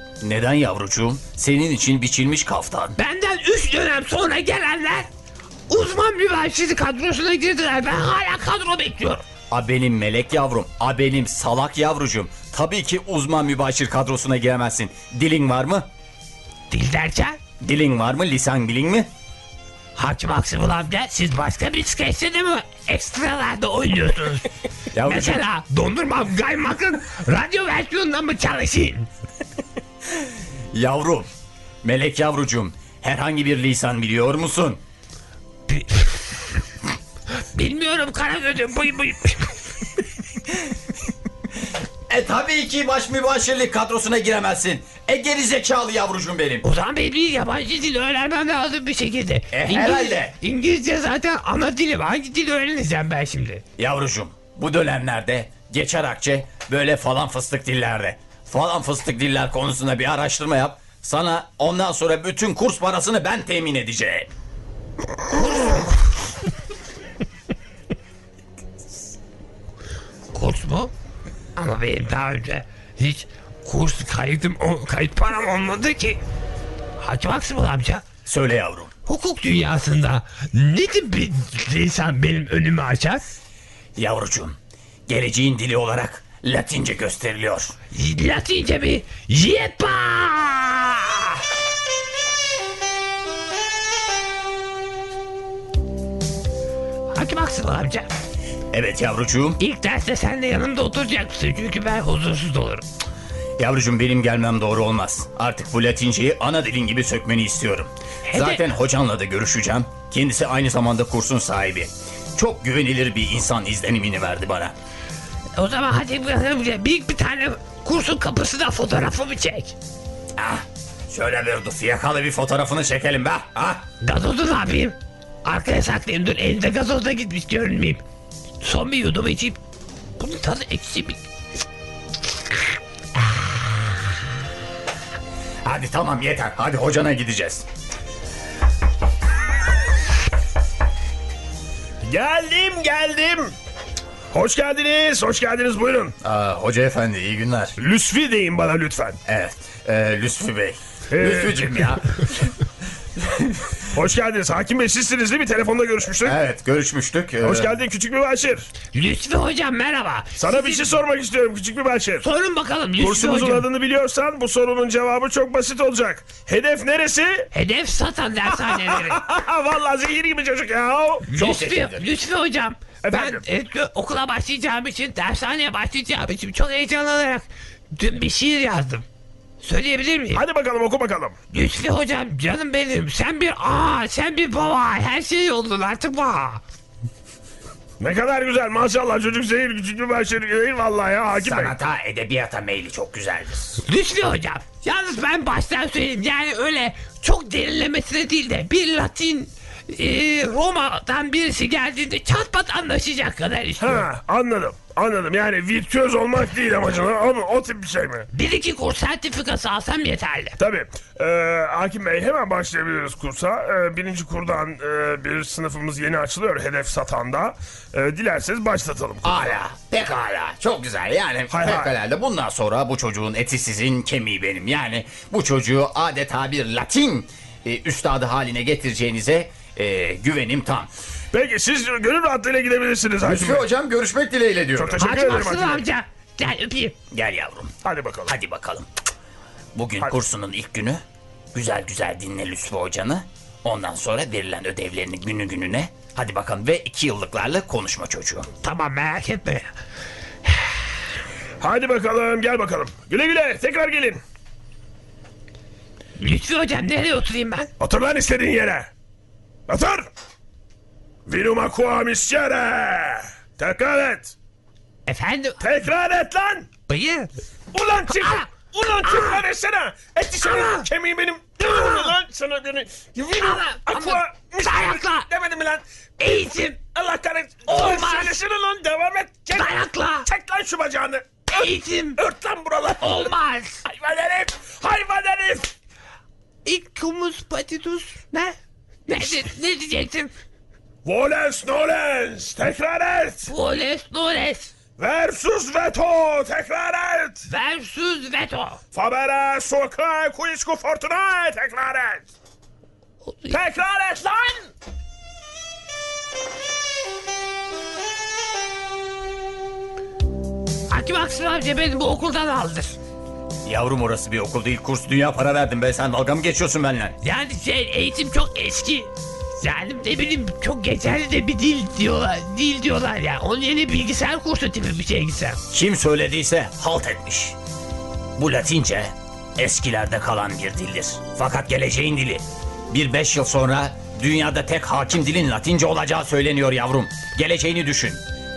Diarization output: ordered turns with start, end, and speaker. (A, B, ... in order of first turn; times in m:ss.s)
0:00.2-0:03.0 A
0:03.0-0:05.1 B
0:05.7-0:09.2 B
0:09.5-0:15.9 A
0:16.7-0:17.4 B
0:17.6-0:19.1 A
0:20.0-0:24.5 B
0:24.9-0:25.4 A
0:25.0-0:29.1 B
0:30.7-0:31.3 A
0:31.8-0:34.8 A
0:35.7-0:36.1 B
0:37.5-0:39.5 B
0:42.1-0:46.6 A
0:46.6-0:53.6 B
0:49.5-0:50.3 A
0:53.8-1:04.3 A
1:10.3-1:10.9 B
1:11.6-1:16.2 B
1:17.0-1:18.0 B
1:18.2-1:18.9 A
1:19.0-1:23.2 B
1:24.0-1:27.7 A
1:27.9-1:31.4 B
1:37.1-1:38.1 B
1:38.7-1:39.6 A
1:39.6-1:42.8 B
1:43.6-1:54.7 A
1:48.2-1:48.6 B
1:55.6-1:59.7 B
2:00.4-2:03.8 A
2:04.0-2:08.0 B
2:08.6-2:09.6 B
2:10.2-2:11.2 B
2:15.6-2:17.6 A
2:22.0-2:23.5 C
2:24.3-2:26.2 C
2:26.2-2:27.8 A
2:27.8-2:29.2 C
2:29.2-2:32.5 A
2:31.1-2:31.9 C
2:33.2-2:33.6 A
2:33.9-2:36.4 C
2:36.2-2:37.7 A
2:37.4-2:38.7 C
2:38.9-2:40.9 B
2:40.4-2:42.2 C
2:42.2-2:43.6 B
2:43.0-2:47.5 C
2:47.5-2:49.2 B
2:48.5-2:51.3 C
2:51.3-2:59.0 B
2:51.3-2:52.0 A
2:53.0-2:53.4 C
2:59.6-3:00.4 B
3:00.3-3:01.3 C
3:01.5-3:06.6 B
3:08.0-3:11.7 C
3:11.4-3:13.8 A
3:13.8-3:24.0 B
3:23.8-3:28.3 C
3:28.3-3:30.6 B
3:30.6-3:39.6 C
3:39.2-3:50.9 A
3:41.5-3:41.9 C
3:51.3-3:53.6 C
3:53.2-3:55.0 A
3:54.8-3:55.8 C
3:55.0-3:56.9 B
3:57.1-3:57.7 A
3:57.8-3:58.3 C
3:58.2-3:58.9 A
3:59.7-4:01.0 A
4:01.5-4:08.5 A
4:08.6-4:09.7 B
4:11.6-4:14.2 C
4:16.2-4:17.7 B
4:17.8-4:18.9 C
4:19.7-4:20.1 C
4:21.3-4:24.3 C
4:25.1-4:25.6 B
4:25.6-4:26.7 C
4:26.9-4:27.3 B
4:27.7-4:43.3 C
4:28.1-4:28.4 B
4:29.0-4:29.4 B
4:30.4-4:30.9 B
4:31.7-4:32.1 B
4:33.4-4:35.3 B
4:36.2-4:36.8 B
4:37.7-4:38.3 B
4:39.5-4:40.3 B
4:41.5-4:42.2 B
4:43.0-4:43.8 B
4:43.8-4:45.7 C
4:46.6-4:48.6 B
4:49.1-4:50.3 B
4:51.0-4:53.5 C
4:53.4-4:54.7 B
4:55.0-4:57.4 C
4:57.5-4:58.8 B
4:58.9-5:02.3 C
5:03.2-5:03.6 B
5:03.5-5:04.7 C
5:10.9-5:13.0 B
5:13.6-5:17.2 A
5:17.2-5:25.6 B
5:25.7-5:27.6 A
5:28.4-5:38.2 A